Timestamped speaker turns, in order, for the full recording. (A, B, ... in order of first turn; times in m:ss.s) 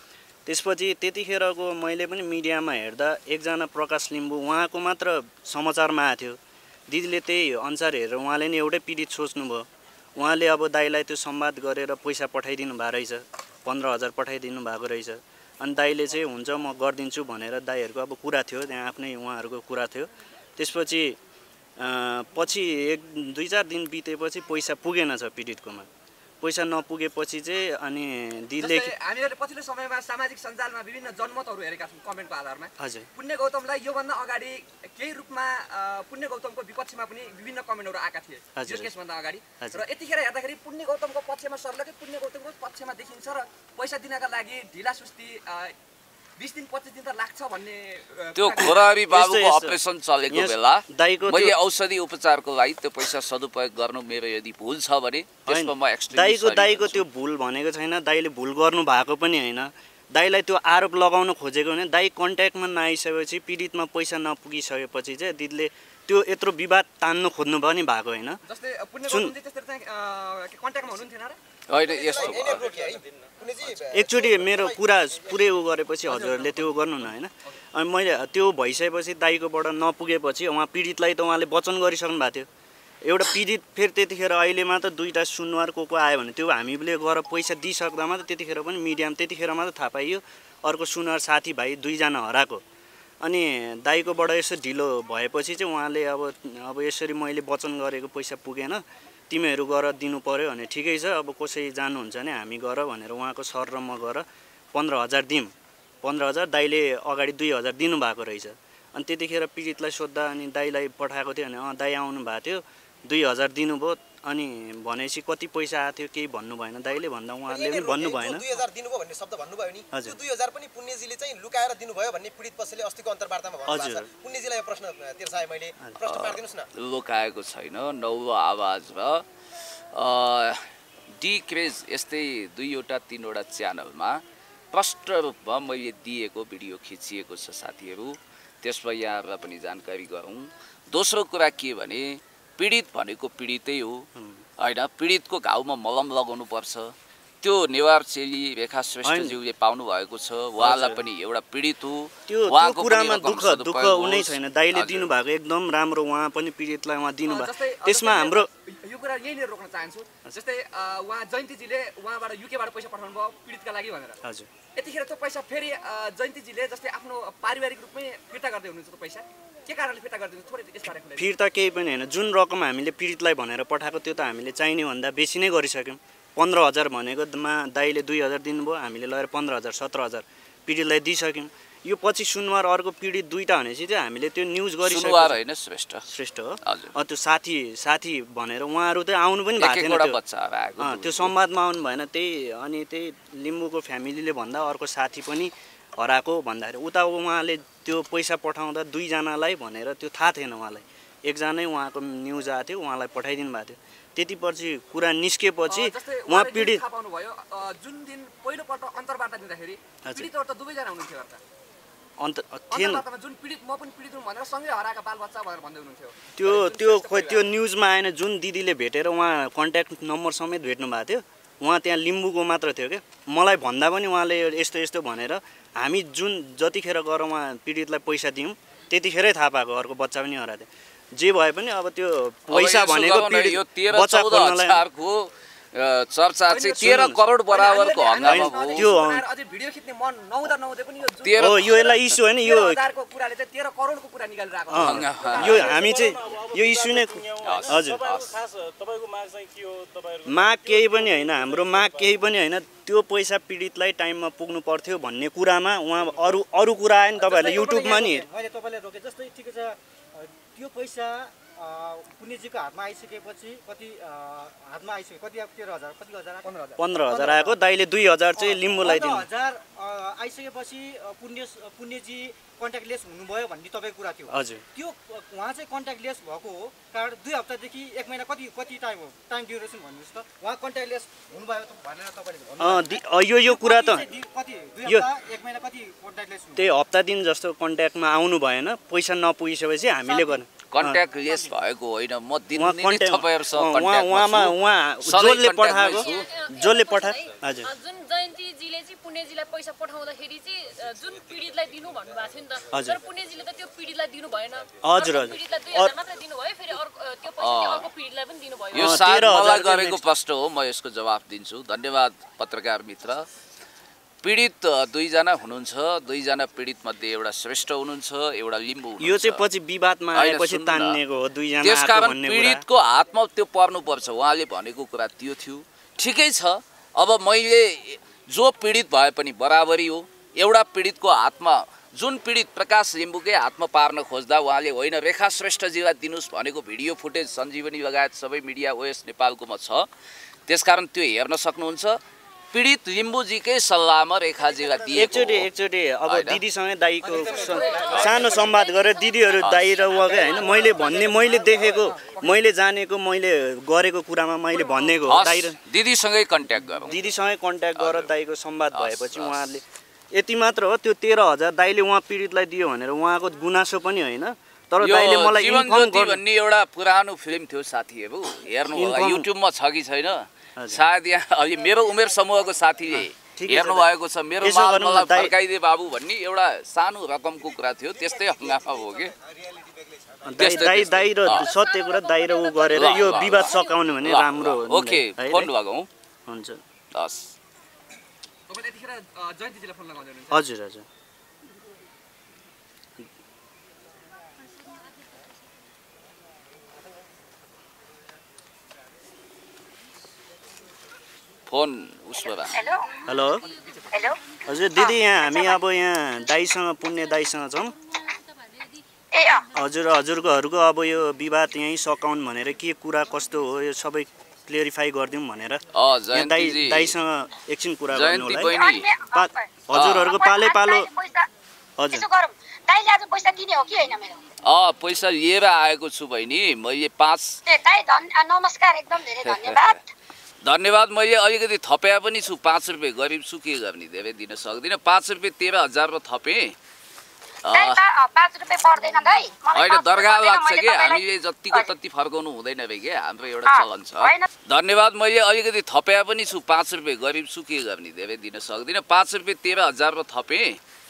0:00.4-0:21.2 A
0:21.8-0:25.9 A
0:26.4-0:28.9 A
0:28.6-0:45.7 B
0:32.8-0:33.1 A
0:38.6-0:38.9 A
0:46.4-0:48.8 B
0:48.4-0:57.0 C
0:49.1-0:49.8 A
0:50.3-0:51.6 A
0:55.4-1:08.4 A
1:08.4-1:11.4 B
1:09.1-1:09.3 A
1:11.7-1:12.7 C
1:11.9-1:15.6 D
1:12.0-1:13.0 E
1:13.9-1:22.5 A
1:16.0-1:17.6 B
1:23.0-1:32.6 A
1:33.2-1:58.4 A
1:57.5-2:06.7 D
2:03.7-2:04.1 A
2:06.1-2:09.2 C
2:09.9-2:10.6 C
2:11.2-2:24.1 C
2:24.2-2:24.4 A
2:24.6-2:35.1 C
2:29.0-2:29.4 A
2:30.6-2:31.0 A
2:32.3-2:38.5 A
2:37.2-2:44.2 B
2:44.2-2:44.5 A
2:44.8-2:51.3 B
2:51.2-3:05.4 A
3:04.8-3:06.0 C
3:06.1-3:10.2 A
3:06.6-3:06.9 C
3:09.6-3:11.3 C
3:10.8-3:26.8 A
3:25.7-3:31.4 B
3:32.2-3:33.0 A
3:32.7-3:37.4 B
3:36.4-3:54.8 A
3:52.5-3:59.0 C
3:56.5-4:05.7 B
3:56.7-3:57.2 A
3:58.3-3:59.2 A
4:01.2-4:01.8 C
4:01.4-4:02.8 A
4:04.7-4:08.0 A
4:04.7-4:05.8 C
4:05.4-4:12.2 E
4:07.4-4:08.3 C
4:10.2-4:18.2 A
4:17.2-4:27.6 F
4:26.4-4:26.8 B
4:26.8-4:29.3 A
4:28.4-4:41.9 F
4:34.3-4:34.6 A
4:41.8-4:42.8 D
4:42.5-4:46.7 F
4:42.6-4:44.1 A
4:46.6-4:51.0 A
4:50.0-4:50.4 F
4:50.7-4:56.2 C
4:51.2-4:51.5 F
4:52.6-4:57.7 A
4:55.9-5:09.0 G
5:02.7-5:03.0 A
5:04.8-5:05.9 A
5:07.4-5:07.9 C
5:08.7-5:13.3 C
5:08.7-5:10.0 A
5:14.2-5:19.4 C
5:19.0-5:22.6 A
5:20.2-5:21.0 C
5:21.6-5:39.9 C
5:40.5-5:42.0 C
5:42.5-5:45.5 C
5:44.9-5:55.6 A
5:46.1-5:46.4 C
5:47.0-5:48.7 B
5:47.9-5:48.3 C
5:48.8-5:49.3 G
5:49.3-5:49.9 C
5:50.0-5:50.8 G
5:50.2-5:52.2 B
5:55.0-5:57.0 C
5:56.8-6:06.2 A
5:57.8-5:58.1 C
5:58.7-5:59.6 C
6:04.8-6:19.1 C
6:08.7-6:09.3 A
6:10.6-6:10.8 A
6:12.9-6:13.9 A
6:14.4-6:15.3 A
6:18.5-6:20.3 D
6:20.2-6:25.5 A
6:20.4-6:21.5 C
6:21.3-6:23.9 G
6:22.7-6:25.9 C
6:26.3-6:26.6 A
6:26.9-6:27.3 C
6:28.5-6:30.4 B
6:30.3-6:30.8 A
6:41.5-6:42.6 C
6:42.2-6:42.9 H
6:43.0-6:43.5 A
6:43.2-6:43.9 G
6:43.9-6:44.2 H
6:44.4-6:47.8 A
6:44.7-6:45.6 H
6:48.0-6:48.8 G
6:49.1-6:49.4 H
6:49.5-6:58.6 A
6:55.7-6:56.9 C
6:57.9-6:58.8 C
6:58.5-7:01.3 H
6:59.1-7:00.9 A
6:59.7-7:00.1 C
7:01.8-7:02.0 A
7:01.9-7:04.2 H
7:04.4-7:07.4 C
7:07.5-7:09.8 H
7:09.2-7:09.8 C
7:10.4-7:16.6 C
7:17.4-7:17.8 C
7:17.5-7:21.7 H
7:19.6-7:30.6 C
7:23.4-7:24.3 H